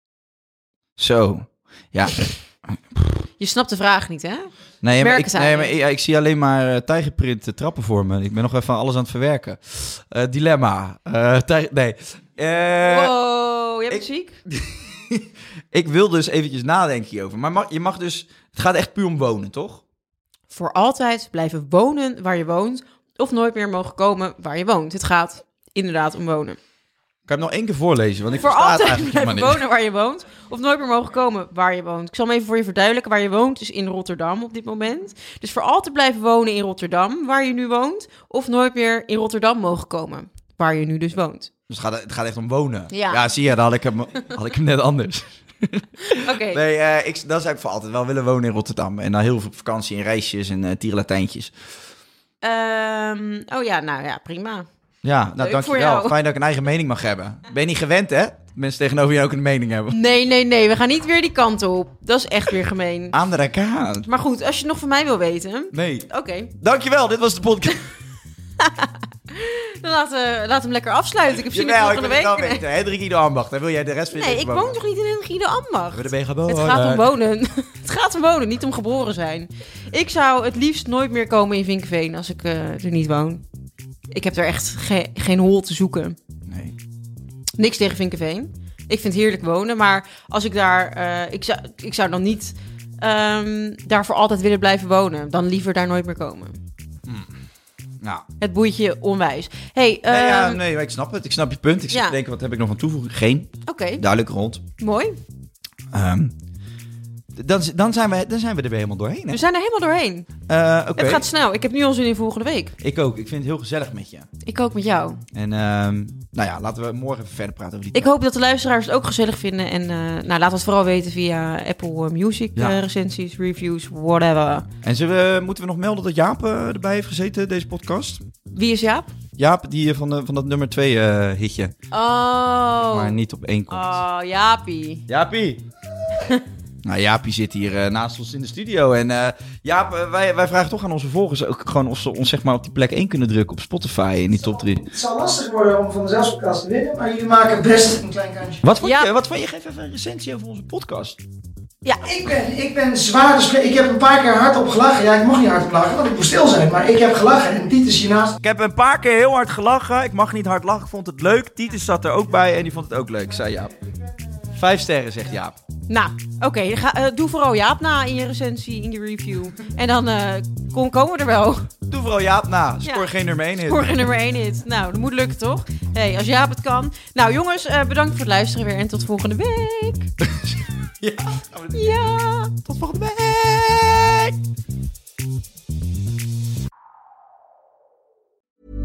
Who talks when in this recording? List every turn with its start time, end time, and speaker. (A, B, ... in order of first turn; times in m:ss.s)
0:01.0-0:03.2 A
0:03.4-0:05.7 B
0:04.8-0:13.1 A
0:12.8-0:14.4 B
0:13.9-0:19.8 A
0:20.5-0:26.6 B
0:27.3-0:29.6 A
0:28.3-0:41.5 B
0:41.7-0:51.5 A
0:42.9-0:43.2 B
0:46.0-0:46.6 B
0:52.4-0:54.7 B
0:55.0-1:00.0 A
0:55.4-0:56.2 B
0:59.9-1:03.2 B
1:03.1-1:04.1 A
1:04.0-1:06.5 B
1:05.7-1:07.9 A
1:08.6-1:12.6 B
1:11.4-1:14.8 A
1:14.1-1:23.4 B
1:15.9-1:17.1 A
1:24.1-1:26.2 B
1:26.4-1:26.8 A
1:27.6-1:36.6 B
1:37.0-1:37.4 A
1:38.0-1:38.2 A
1:38.4-1:40.6 B
1:40.1-1:44.6 A
1:41.9-1:42.2 B
1:43.6-1:44.0 B
1:44.8-1:45.2 B
1:45.9-1:46.4 A
1:47.3-1:49.4 A
1:49.3-1:50.3 B
1:50.5-1:51.2 A
1:51.0-1:52.8 B
1:52.8-1:54.3 A
1:54.4-1:55.2 B
1:55.3-1:58.1 A
1:57.9-2:04.7 B
2:04.8-2:08.3 A
2:08.5-2:09.1 B
2:09.4-2:11.7 A
2:11.9-2:13.2 B
2:12.8-2:14.0 A
2:13.7-2:15.0 B
2:15.1-2:15.6 A
2:16.8-2:24.9 A
2:24.8-2:28.6 C
2:28.6-2:31.2 A
2:28.8-2:29.1 B
2:31.8-2:32.1 B
2:32.0-2:38.4 C
2:38.4-2:43.8 A
2:44.5-2:45.6 A
2:45.9-2:51.7 B
2:51.9-2:54.0 A
2:52.8-3:00.1 B
3:00.2-3:02.0 A
3:01.7-3:02.5 B
3:02.6-3:04.4 A